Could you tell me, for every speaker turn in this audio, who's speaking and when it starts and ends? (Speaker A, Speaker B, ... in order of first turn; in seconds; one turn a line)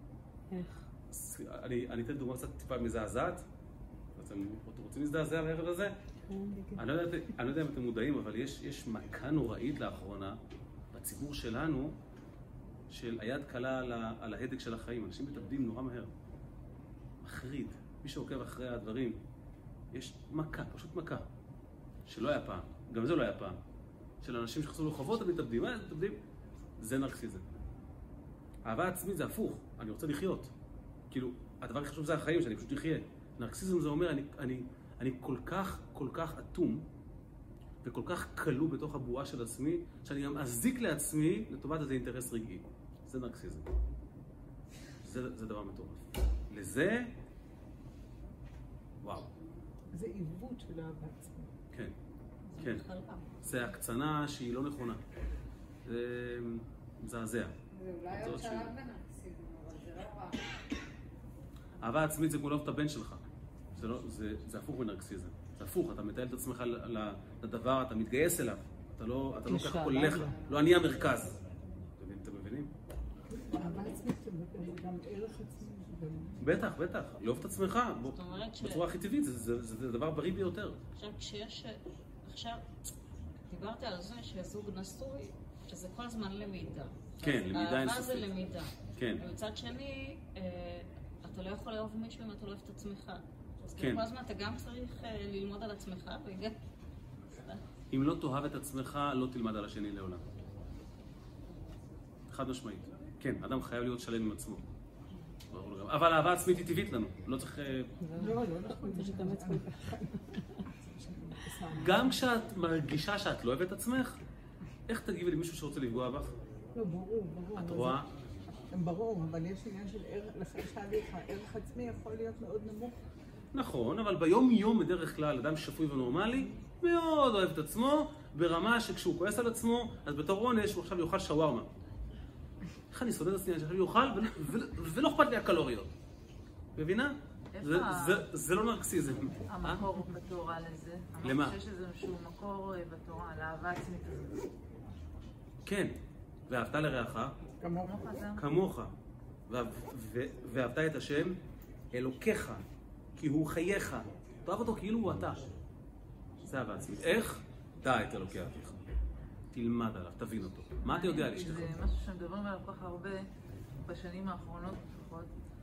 Speaker A: 0.5-0.8
Speaker B: 1.1-3.4
Speaker B: 4.2-6.0
Speaker A: 6.3-6.7
Speaker C: 6.3-6.7
Speaker B: 6.8-10.4
Speaker B: 10.9-12.0
Speaker B: 12.9-16.1
Speaker B: 17.2-19.2
Speaker B: 19.9-21.3
Speaker B: 22.1-23.6
Speaker B: 24.2-26.2
Speaker B: 26.8-27.5
Speaker B: 28.7-30.5
Speaker B: 31.1-36.9
Speaker B: 37.8-43.7
Speaker B: 45.0-47.1
Speaker B: 49.0-49.3
Speaker C: 49.9-51.5
Speaker D: 52.5-53.4
Speaker B: 52.6-52.9
Speaker B: 53.4-55.0
Speaker B: 55.9-57.5
Speaker E: 57.7-60.4
Speaker B: 58.2-58.7
Speaker B: 61.8-71.3
Speaker A: 69.5-70.4
Speaker B: 72.0-72.7
Speaker C: 73.3-76.4
Speaker B: 76.4-80.8
Speaker D: 78.1-78.8
Speaker D: 81.0-82.6
Speaker D: 83.5-96.6
Speaker B: 87.2-88.3
Speaker B: 89.0-89.2
Speaker B: 93.8-94.0
Speaker D: 97.3-97.6
Speaker B: 97.9-100.2
Speaker B: 102.3-104.7
Speaker B: 105.5-107.9
Speaker A: 108.0-110.4
Speaker C: 108.2-110.1
Speaker C: 110.8-112.2
Speaker B: 111.8-114.2
Speaker B: 114.9-116.3
Speaker C: 116.7-118.0
Speaker B: 117.5-118.1
Speaker C: 118.7-123.0
Speaker B: 123.5-131.7
Speaker B: 132.9-135.9
Speaker B: 136.8-139.8
Speaker F: 137.6-138.2
Speaker F: 139.5-144.5
Speaker B: 141.2-141.6
Speaker B: 145.7-145.9
Speaker B: 146.5-147.4
Speaker C: 147.6-148.1
Speaker F: 147.8-148.5
Speaker B: 148.4-148.9
Speaker B: 149.5-151.4
Speaker B: 151.9-152.6
Speaker B: 153.2-155.5
Speaker B: 156.4-158.8
Speaker B: 159.5-161.8
Speaker F: 160.8-163.3
Speaker C: 161.3-161.7
Speaker F: 163.8-165.3